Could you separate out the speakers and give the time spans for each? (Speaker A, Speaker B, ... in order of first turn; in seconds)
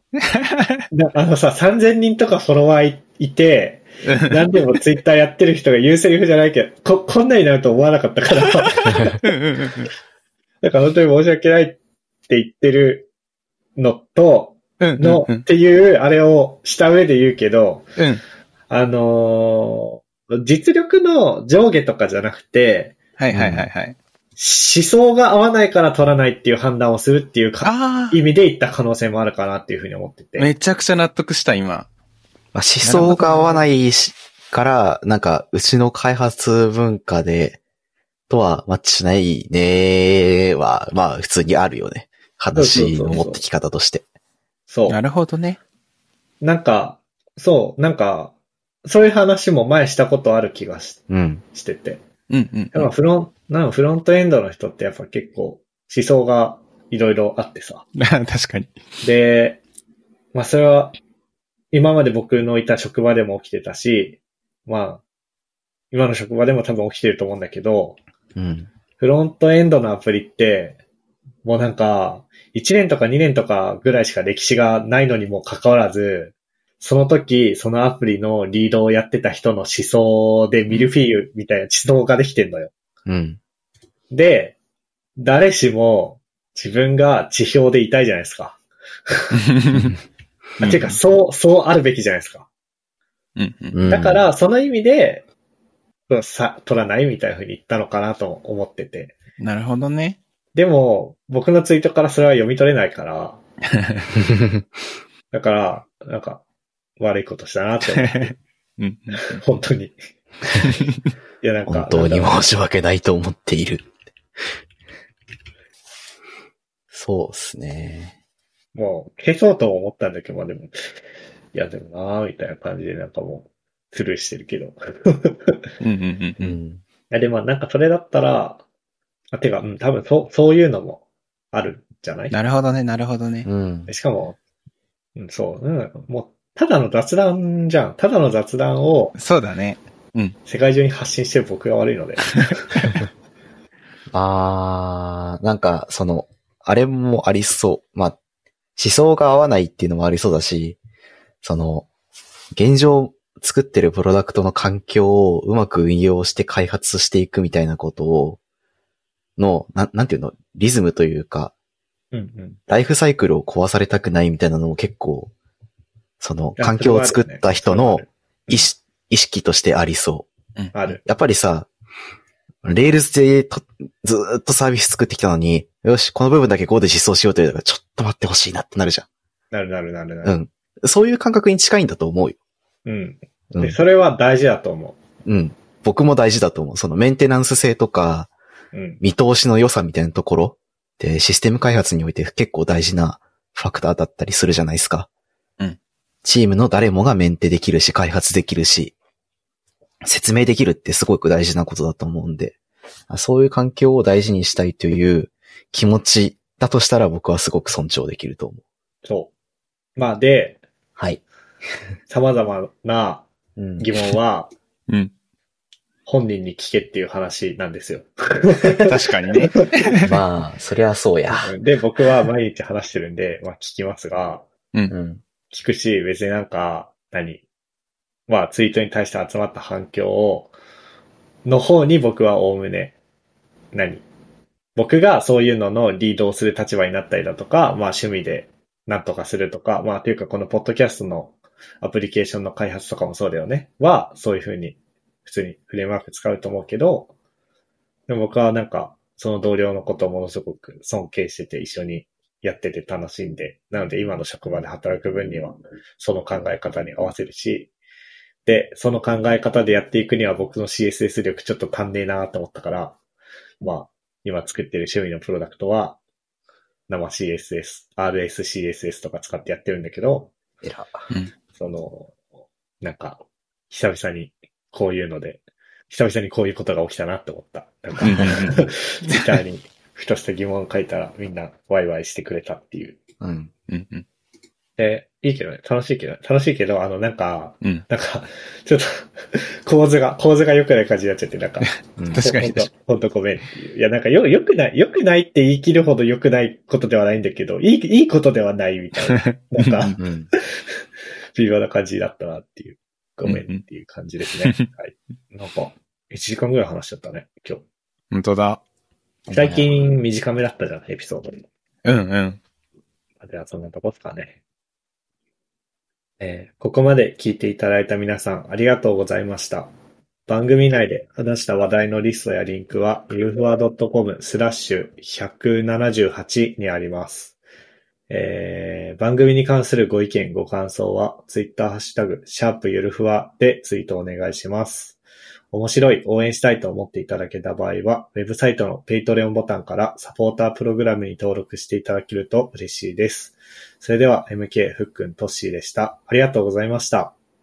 Speaker A: 0.2-0.8, 4.1-4.4, 8.8-9.9, 14.8-15.4, 23.2-24.0, 27.6-28.2, 30.4-31.9, 32.8-33.6, 44.9-45.6, 52.3-52.9, 58.0-58.7, 89.3-90.0, 90.6-91.0, 93.3-93.8, 99.4-100.2, 107.9-109.4, 125.8-126.5, 132.3-133.5, 139.2-140.3, 218.8-220.2, 278.0-279.2, 283.7-284.0, 292.1-292.7, 299.1-300.0, 303.2-303.6, 308.1-308.6, 311.8-312.4
Speaker B: 0.9-9.2, 10.6-13.1, 13.8-17.9, 18.7-23.0, 24.4-30.5, 42.5-43.4, 44.7-45.0, 46.4-48.3, 48.8-52.0, 52.7-57.8, 59.0-59.6, 60.3-60.9, 61.7-65.0, 65.9-68.0, 69.0-70.8, 71.4-82.7, 84.1-84.5, 85.2-89.3, 90.6-92.5, 93.8-95.2, 96.1-99.2, 100.5-103.4, 105.3-106.4, 107.0-108.3, 109.2-110.0, 111.4-112.4, 118.7-120.8, 121.5-125.6, 127.1-128.6, 129.3-132.3, 133.9-134.4, 135.2-139.1, 140.4-142.6, 162.1-162.6, 166.6-168.7, 170.7-171.0, 179.5-180.4, 182.8-185.0, 188.7-189.0, 209.0-209.3, 209.9-210.6, 212.1-213.3, 213.8-214.5, 216.1-218.9, 221.3-224.4, 225.5-227.4, 228.3-230.5, 231.4-232.9, 233.7-234.0, 234.8-247.1, 248.1-257.7, 258.4-262.9, 263.6-266.0, 266.9-270.3, 271.6-272.1, 272.8-283.0, 284.8-300.4, 301.3-307.6, 309.3-311.4, 313.2-314.4, 316.2-319.7, 320.3-327.4, 328.1-335.0, 335.5-347.1
Speaker C: 23.3-23.7, 32.5-37.6, 38.3-44.0, 51.1-51.4, 68.3-68.7, 83.0-83.4, 93.7-94.2, 104.2-104.7, 111.7-113.9, 116.9-118.1, 126.4-126.8, 133.4-133.9, 144.1-148.2, 148.8-150.8, 151.4-151.9, 152.5-158.4, 159.4-161.5, 162.7-165.3, 166.2-170.3, 170.9-171.7, 172.6-179.1, 180.2-182.4, 183.5-183.8, 185.2-188.3, 189.0-195.1, 196.2-198.9, 200.0-202.6, 203.1-208.6, 213.6-213.8, 220.0-221.5, 224.9-225.2, 270.6-271.1, 283.2-283.5, 292.0-292.2, 300.0-300.3, 309.3-309.6